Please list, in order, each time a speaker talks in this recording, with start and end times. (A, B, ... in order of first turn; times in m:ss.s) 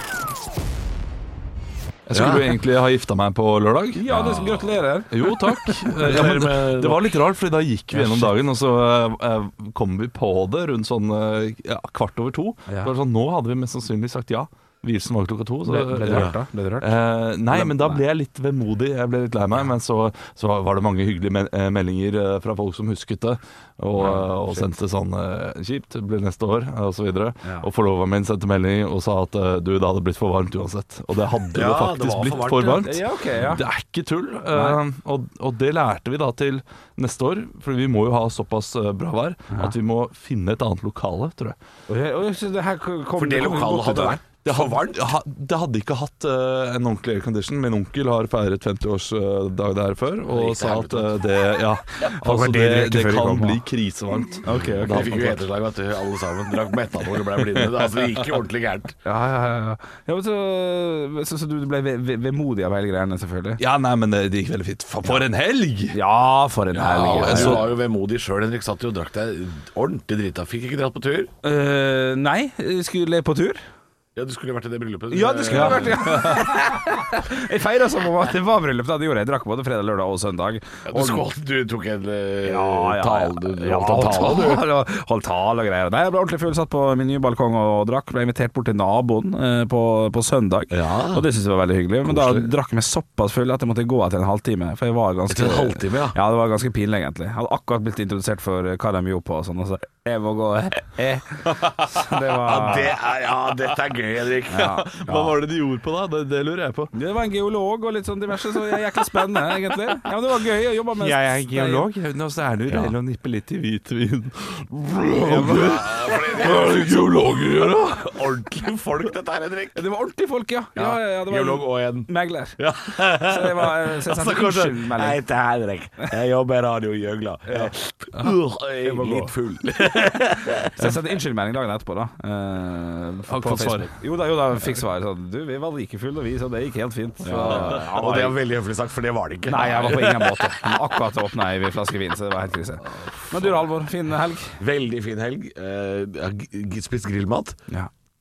0:02.1-0:41.6 A
0:02.1-0:02.6 B
0:03.9-0:06.1 C
0:06.0-0:07.2 B
0:07.9-0:08.3 C
0:12.7-0:12.9 C
0:15.6-0:16.9 C
0:17.5-0:18.0 C
0:24.0-0:24.6 C
0:31.5-0:32.9 B
0:32.7-0:33.6 C
0:34.5-0:34.8 C
0:41.9-0:44.2 C
0:43.2-0:45.1 B
0:44.4-0:55.3 A
0:50.3-0:51.2 B
0:52.0-0:53.6 C
0:54.4-0:55.4 C
0:54.5-0:59.0 B
0:59.0-1:03.6 C
1:03.6-1:06.0 A
1:05.9-1:07.6 C
1:06.7-1:11.3 B
1:07.2-1:07.7 A
1:11.4-1:13.6 C
1:14.2-1:16.2 B
1:15.1-1:21.2 C
1:15.5-1:16.5 A
1:20.9-1:24.6 B
1:22.4-1:42.9 C
1:30.7-1:31.2 B
1:32.0-1:32.5 B
1:35.3-1:36.2 B
1:42.4-1:44.7 B
1:44.5-1:45.3 C
1:44.6-1:46.9 A
1:46.9-1:51.9 C
1:51.0-1:58.3 A
1:55.2-1:59.8 B
1:59.8-2:02.6 C
2:00.8-2:10.9 B
2:03.1-2:05.2 C
2:07.5-2:07.7 C
2:08.2-2:08.5 A
2:08.8-2:09.3 C
2:10.1-2:18.4 C
2:13.3-2:13.9 A
2:17.2-2:20.6 B
2:17.4-2:17.8 A
2:19.5-2:24.6 C
2:22.9-2:23.5 A
2:24.6-2:27.6 B